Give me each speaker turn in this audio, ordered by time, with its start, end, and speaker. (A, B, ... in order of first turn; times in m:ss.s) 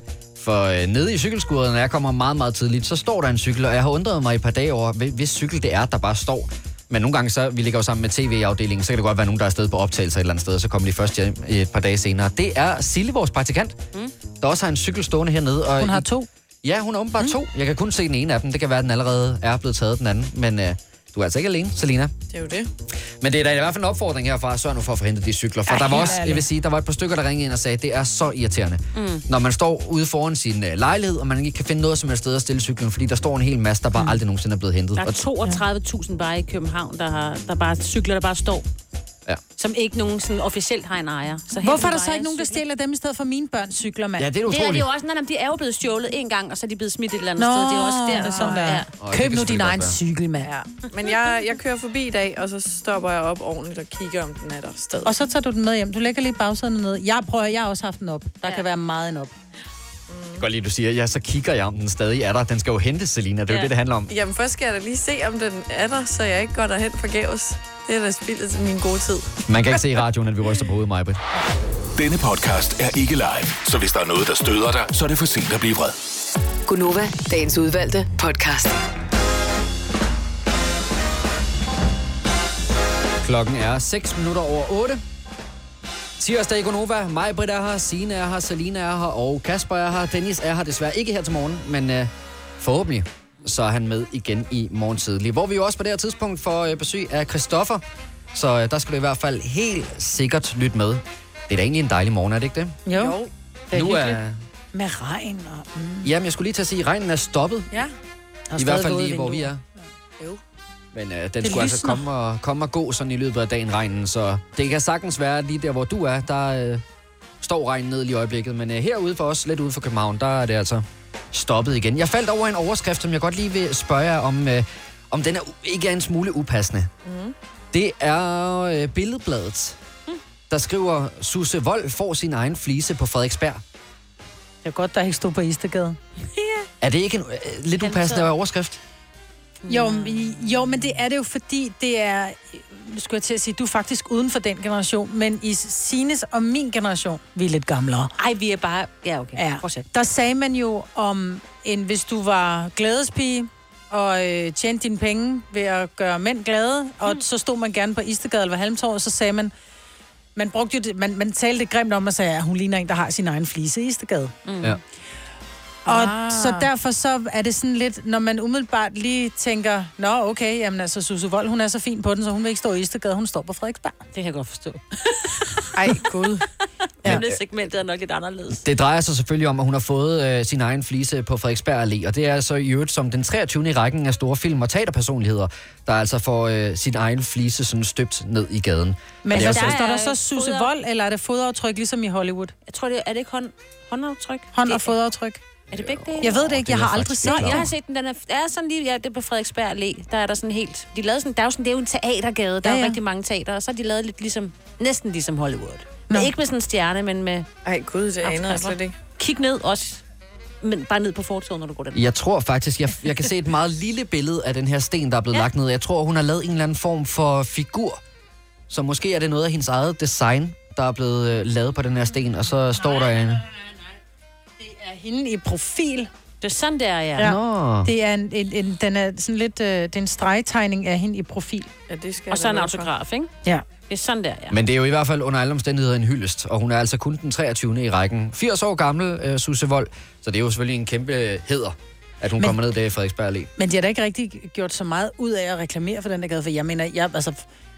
0:00.4-0:13.8 A
0:14.4-0:16.0 A
0:15.8-0:16.3 B
0:16.6-0:22.1 A
0:22.3-0:22.7 C
0:23.2-0:35.2 A
0:25.7-0:26.4 B
0:28.9-0:29.2 D
0:35.0-0:38.6 D
0:39.6-0:42.6 D
0:41.6-0:44.3 B
0:44.2-0:44.9 A
0:44.5-0:48.9 D
0:47.4-0:50.5 B
0:49.0-0:50.0 A
0:50.4-0:55.1 C
0:55.0-0:59.3 B
1:00.1-1:00.4 C
1:00.4-1:04.1 A
1:04.1-1:09.4 C
1:09.5-1:11.2 A
1:12.0-1:16.0 E
1:16.7-1:18.7 F
1:23.2-1:25.0 A
1:26.2-1:37.8 A
1:38.3-1:42.8 A
1:42.8-1:43.2 B
1:42.9-1:43.3 C
1:43.7-1:44.2 B
1:43.7-1:44.4 A
1:44.7-1:46.1 B
1:46.0-1:47.7 A
1:48.5-1:49.5 B
1:48.6-1:49.6 A
1:50.9-1:56.8 A
1:51.4-1:52.0 B
1:57.4-2:06.9 A
2:07.0-2:07.3 C
2:07.7-2:09.8 A
2:10.5-2:13.6 A
2:14.6-2:16.0 B
2:16.3-2:16.7 D
2:16.8-2:18.8 A
2:17.8-2:18.3 D
2:19.6-2:20.3 D
2:19.7-2:28.1 B
2:28.2-2:29.8 D
2:29.4-2:39.5 B
2:40.4-2:44.3 B
2:44.4-2:44.8 D
2:45.8-2:54.0 B
2:45.9-2:46.7 D
2:54.1-2:55.7 D
2:55.7-2:56.4 C
2:57.0-2:58.6 D
2:57.0-2:57.4 A
2:58.5-3:09.8 A
3:09.2-3:12.5 B
3:09.3-3:10.7 D
3:12.6-3:14.9 D
3:14.5-3:15.4 B
3:15.7-3:16.3 D
3:15.7-3:17.7 A
3:16.2-3:17.6 B
3:17.2-3:27.5 D
3:22.6-3:23.0 B
3:27.6-3:28.9 C
3:28.2-3:30.0 D
3:30.6-3:32.0 D
3:31.9-3:38.0 A
3:38.7-3:43.4 A
3:44.6-3:46.1 B
3:46.4-3:47.3 D
3:47.2-3:51.7 B
3:47.2-3:47.9 A
3:51.9-3:52.9 C
3:52.3-3:53.3 D
3:53.9-3:54.6 D
3:54.5-4:03.5 A
4:03.6-4:07.4 B